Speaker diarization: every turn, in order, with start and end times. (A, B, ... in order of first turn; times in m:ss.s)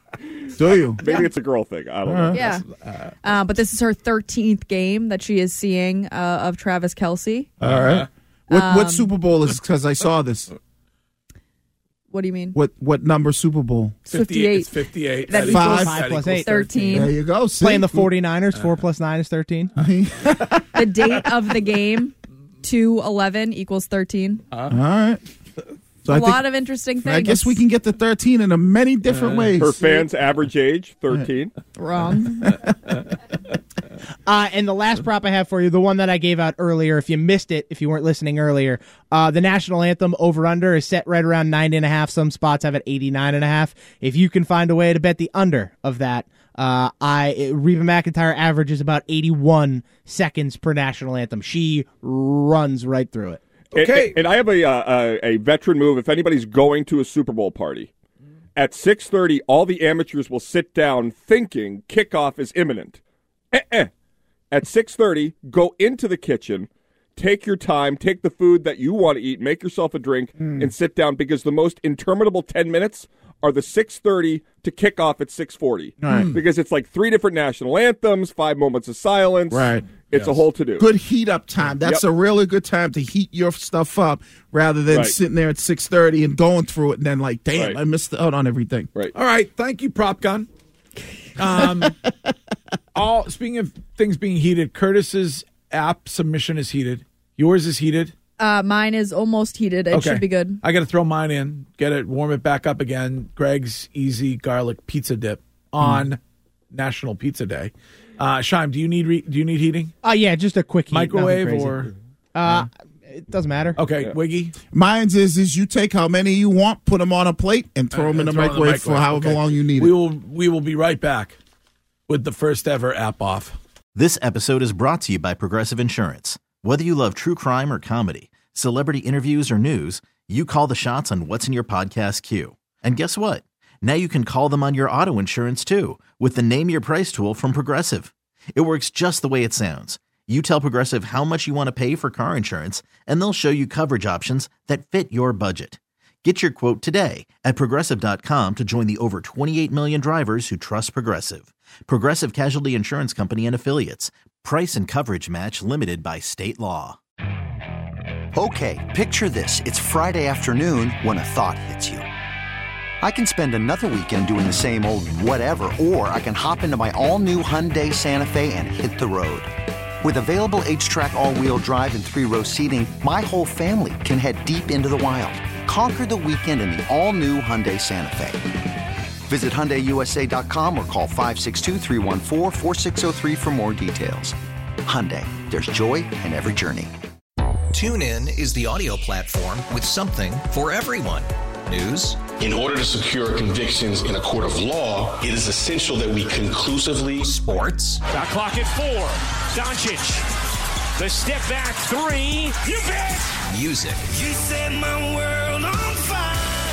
0:00.6-0:01.2 A
0:01.0-0:02.6 B
0:01.0-0:01.3 C
0:02.0-0:02.5 A
0:02.3-0:02.7 C
0:03.2-0:07.5 C
0:07.6-0:10.5 A
0:07.6-0:08.1 D
0:08.5-0:09.1 C
0:12.1-0:12.6 C
0:12.5-0:14.0 A
0:14.1-0:16.9 D
0:14.1-0:17.2 C
0:15.4-0:19.7 E
0:15.4-0:16.0 A
0:16.9-0:18.1 A
0:19.8-0:20.8 A
0:20.7-0:24.4 C
0:24.7-0:25.2 A
0:26.0-0:26.4 A
0:26.1-0:27.6 C
0:27.0-0:29.8 A
0:29.1-0:29.6 D
0:29.6-0:31.5 B
0:31.8-0:32.6 C
0:34.3-0:53.4 E
0:53.7-0:54.2 D
0:53.8-0:57.9 B
0:58.6-1:03.0 B
1:03.5-1:03.9 B
1:04.5-1:20.9 B
1:16.0-1:16.4 A
1:19.5-1:19.9 A
1:20.1-1:20.4 D
1:20.8-1:28.9 A
1:24.9-1:25.2 B
1:29.1-1:30.5 D
1:31.4-1:32.0 D
1:32.9-1:38.1 D
1:38.4-1:40.6 C
1:39.9-1:46.2 D
1:46.7-1:49.9 D
1:50.0-1:53.8 E
1:50.9-1:51.9 D
1:53.8-1:54.6 D
1:54.7-2:00.0 A
1:57.9-2:01.4 D
2:02.1-2:03.6 D
2:04.0-2:37.0 F
2:38.3-2:42.1 G
2:43.0-2:58.5 G
2:59.3-3:06.9 G
3:07.7-3:12.2 H
3:12.4-3:17.3 I
3:17.2-3:18.0 H
3:18.2-3:20.2 J
3:21.0-3:22.8 J
3:23.5-3:24.1 H
3:24.7-3:25.9 J